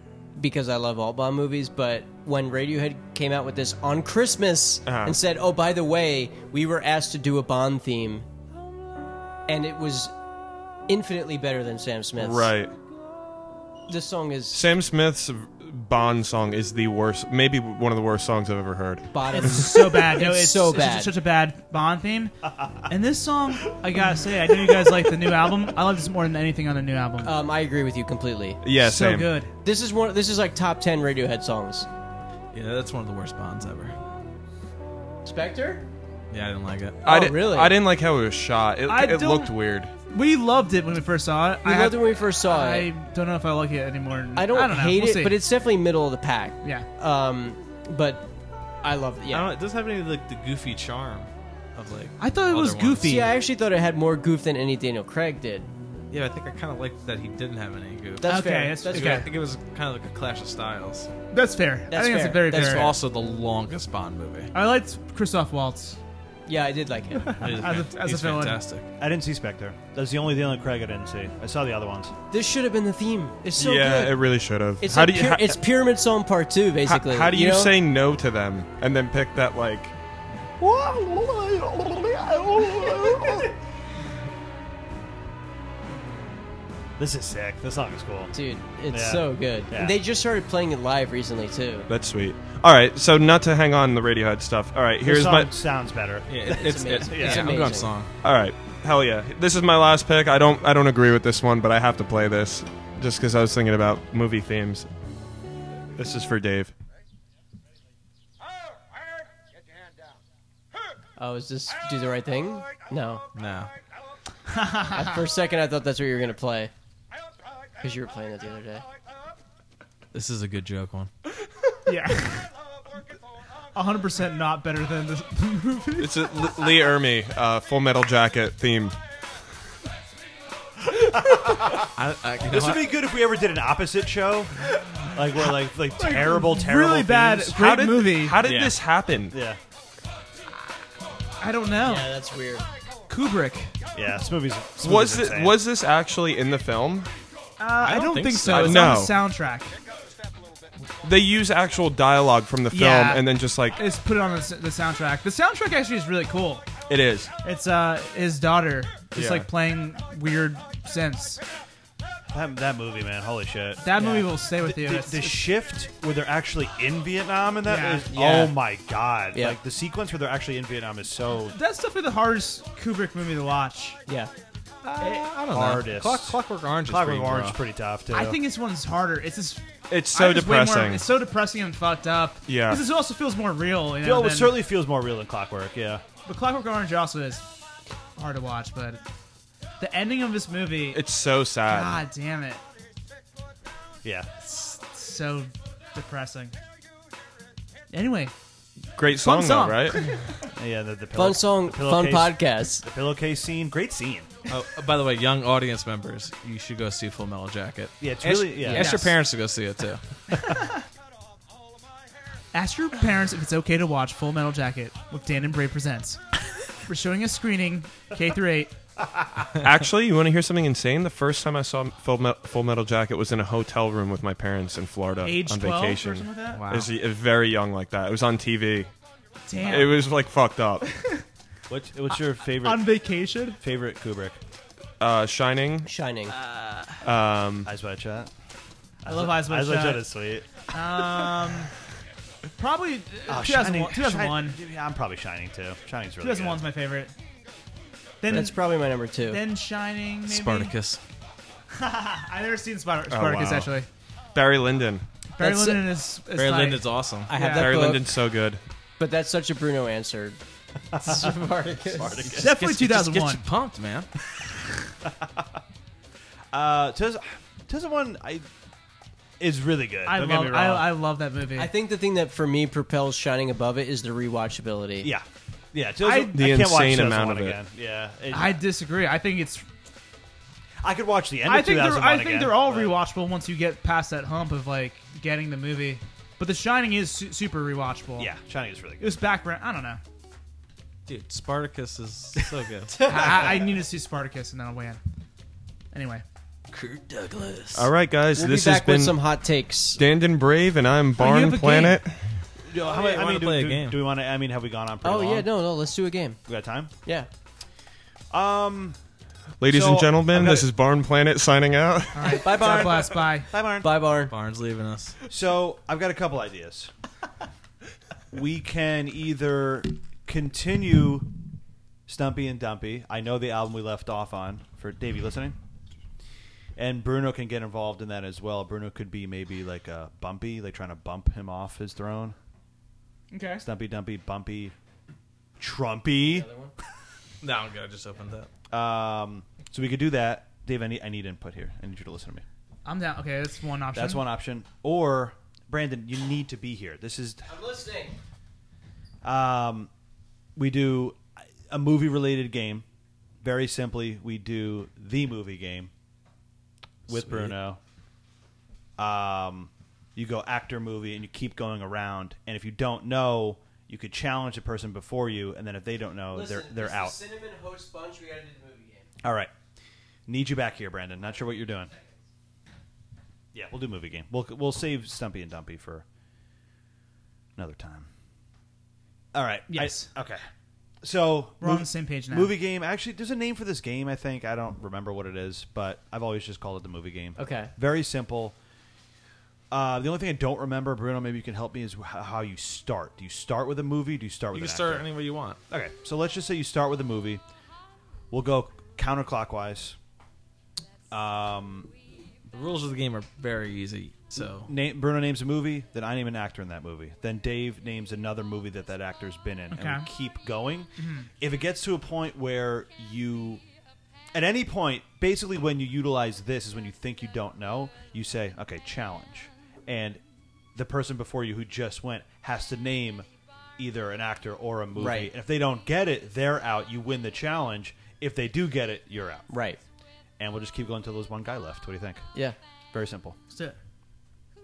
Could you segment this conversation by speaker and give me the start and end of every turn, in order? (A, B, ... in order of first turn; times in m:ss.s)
0:00.4-0:08.3 A
0:04.8-0:05.2 B
0:09.5-0:10.1 A
0:10.9-0:12.5 A
0:12.2-0:12.7 B
0:13.9-0:14.7 A
0:14.5-0:19.8 B
0:19.1-0:21.1 A
0:19.3-0:27.4 C
0:22.6-0:22.9 D
0:24.2-0:25.6 D
0:27.2-0:28.6 A
0:28.6-0:29.4 B
0:28.8-0:29.5 C
0:29.6-0:31.9 A
0:32.5-0:34.0 E
0:35.2-0:35.9 A
0:36.3-0:37.0 E
0:37.0-0:39.9 B
0:37.1-0:37.8 A
0:38.9-0:39.5 C
0:40.1-0:45.4 C
0:41.6-0:42.9 A
0:44.4-0:48.3 A
0:46.6-0:46.9 C
0:48.8-0:49.5 A
0:49.3-0:53.2 E
0:52.2-0:53.3 C
0:53.0-0:55.7 A
0:56.1-1:01.1 E
0:58.2-0:59.3 A
0:58.2-0:59.3 C
1:01.3-1:02.9 C
1:01.9-1:03.0 A
1:02.5-1:04.5 E
1:04.5-1:06.0 C
1:06.5-1:07.6 A
1:07.3-1:08.6 C
1:07.4-1:08.9 E
1:09.0-1:12.1 D
1:12.3-1:14.2 A
1:13.6-1:15.6 B
1:14.8-1:17.8 A
1:16.8-1:19.9 B
1:20.6-1:23.5 D
1:27.0-1:28.3 D
1:28.3-1:31.9 A
1:28.9-1:30.0 D
1:31.9-1:35.5 B
1:35.0-1:37.5 D
1:36.3-1:38.1 E
1:36.5-1:37.9 A
1:38.2-1:44.9 B
1:46.0-1:46.7 B
1:51.2-1:53.2 A
1:53.4-1:53.7 E
1:54.5-1:55.2 C
1:54.9-1:56.7 A
1:57.8-1:58.8 A
2:00.1-2:01.1 E
2:01.9-2:02.5 C
2:03.8-2:06.6 C
2:06.0-2:09.0 B
2:11.1-2:11.9 D
2:11.4-2:13.0 E
2:12.5-2:17.6 D
2:16.0-2:18.4 C
2:17.5-2:19.4 B
2:18.4-2:18.8 E
2:19.3-2:19.6 D
2:21.4-2:22.1 C
2:21.8-2:22.6 A
2:23.1-2:23.7 C
2:23.9-2:25.6 D
2:24.8-2:27.1 B
2:27.6-2:29.8 C
2:27.8-2:28.9 E
2:28.4-2:29.2 B
2:31.0-2:33.8 B
2:32.7-2:36.7 C
2:36.9-2:37.3 B
2:37.4-2:41.4 C
2:39.1-2:39.5 B
2:42.3-2:51.6 D
2:43.8-2:45.4 C
2:47.6-2:48.2 C
2:48.1-2:48.5 A
2:49.3-2:49.6 A
2:51.5-2:54.0 C
2:54.8-2:57.6 E
2:55.0-2:55.3 C
2:55.5-2:58.4 D
2:58.1-3:04.5 C
2:59.9-3:01.1 B
3:02.5-3:02.8 B
3:04.0-3:06.0 D
3:06.2-3:07.5 C
3:08.2-3:09.0 C
3:09.8-3:11.0 C
3:10.9-3:12.0 B
3:11.7-3:12.6 C
3:14.0-3:14.3 D
3:14.4-3:16.6 C
3:17.9-3:18.3 C
3:19.0-3:20.1 B
3:19.1-3:20.3 C
3:20.6-3:24.3 D
3:21.2-3:22.9 A
3:24.5-3:30.0 E
3:28.0-3:29.0 D
3:28.8-3:29.2 C
3:30.3-3:30.8 C
3:32.5-3:36.2 C
3:36.7-3:38.7 C
3:39.6-3:48.9 B
3:45.2-3:46.6 C
3:46.5-3:46.9 E
3:49.5-3:50.1 C
3:49.6-3:50.9 B
3:51.7-3:53.0 D
3:52.5-3:53.6 C
3:53.6-3:54.4 D
3:55.0-3:55.9 B
3:55.9-3:56.4 A
3:56.4-3:56.9 E
3:57.0-3:57.7 B
3:57.6-3:58.3 D
3:59.0-4:00.7 D
3:59.1-4:00.1 C
4:00.7-4:01.7 C
4:02.6-4:04.6 C
4:03.3-4:06.6 D
4:06.2-4:07.1 C
4:08.2-4:08.6 C
4:08.3-4:09.4 A
4:09.3-4:10.8 C
4:10.3-4:11.0 E
4:11.7-4:13.9 C
4:13.1-4:13.7 B
4:14.3-4:15.0 B
4:15.4-4:17.9 C
4:15.4-4:15.9 A
4:16.3-4:17.3 E
4:17.3-4:18.2 A
4:17.4-4:18.6 B
4:19.0-4:20.4 A
4:20.9-4:22.5 D
4:21.0-4:22.2 A
4:22.2-4:24.1 E
4:22.4-4:23.4 C
4:25.0-4:25.6 D
4:26.5-4:28.5 D
4:29.4-4:30.9 D
4:30.1-4:31.7 C
4:31.6-4:35.1 A
4:35.0-4:38.6 D
4:36.0-4:36.4 C
4:36.3-4:37.6 B
4:38.3-4:39.7 C
4:40.8-4:43.0 D
4:41.4-4:48.3 C
4:48.2-4:49.2 D
4:49.0-4:50.0 C
4:51.1-4:53.5 E
4:53.0-4:55.0 C
4:55.9-4:56.2 C
4:56.7-4:57.9 E
4:57.7-4:59.2 B
4:58.3-5:00.0 A
5:00.0-5:02.4 B
5:01.2-5:02.0 C
5:02.6-5:05.5 D
5:02.8-5:04.0 E
5:05.0-5:06.4 A
5:06.5-5:06.9 D
5:07.0-5:07.3 A
5:08.3-5:09.0 D
5:09.6-5:12.6 B
5:09.7-5:10.7 D
5:12.2-5:13.5 C
5:12.4-5:13.9 D
5:12.4-5:13.2 A
5:13.8-5:14.3 A
5:14.2-5:15.2 E
5:15.3-5:16.9 D
5:18.3-5:21.3 D
5:22.1-5:25.6 D
5:26.8-5:32.4 D
5:33.3-5:33.6 C
5:33.6-5:34.8 D
5:35.6-5:36.5 D
5:36.3-5:36.7 A
5:37.4-5:38.5 E
5:38.7-5:42.4 D
5:42.8-5:44.2 C
5:43.9-5:47.5 D
5:47.5-5:48.2 A
5:49.2-5:49.9 D
5:50.6-5:52.8 D
5:53.4-5:55.9 D
5:57.1-5:57.8 D
5:57.1-5:57.5 E
5:59.0-6:07.2 D
6:06.3-6:09.1 A
6:09.2-6:09.5 D
6:10.3-6:11.9 D
6:13.5-6:16.0 D
6:17.6-6:18.1 D
6:19.3-6:20.4 D
6:19.7-6:20.1 C
6:21.0-6:28.6 D
6:21.6-6:22.5 C
6:27.4-6:27.7 A
6:29.7-6:35.1 D
6:34.5-6:35.6 E
6:35.7-6:37.4 D
6:38.3-6:40.0 D
6:41.1-6:41.9 D
6:42.5-6:44.7 E
6:44.4-6:53.6 D
6:49.7-6:50.1 C
6:51.0-6:51.3 C
6:54.3-7:00.2 D
7:00.8-7:03.3 D
7:03.8-7:09.5 D
7:05.0-7:05.3 A
7:09.5-7:09.8 A
7:10.4-7:12.3 D
7:12.9-7:13.4 D
7:13.5-7:13.8 C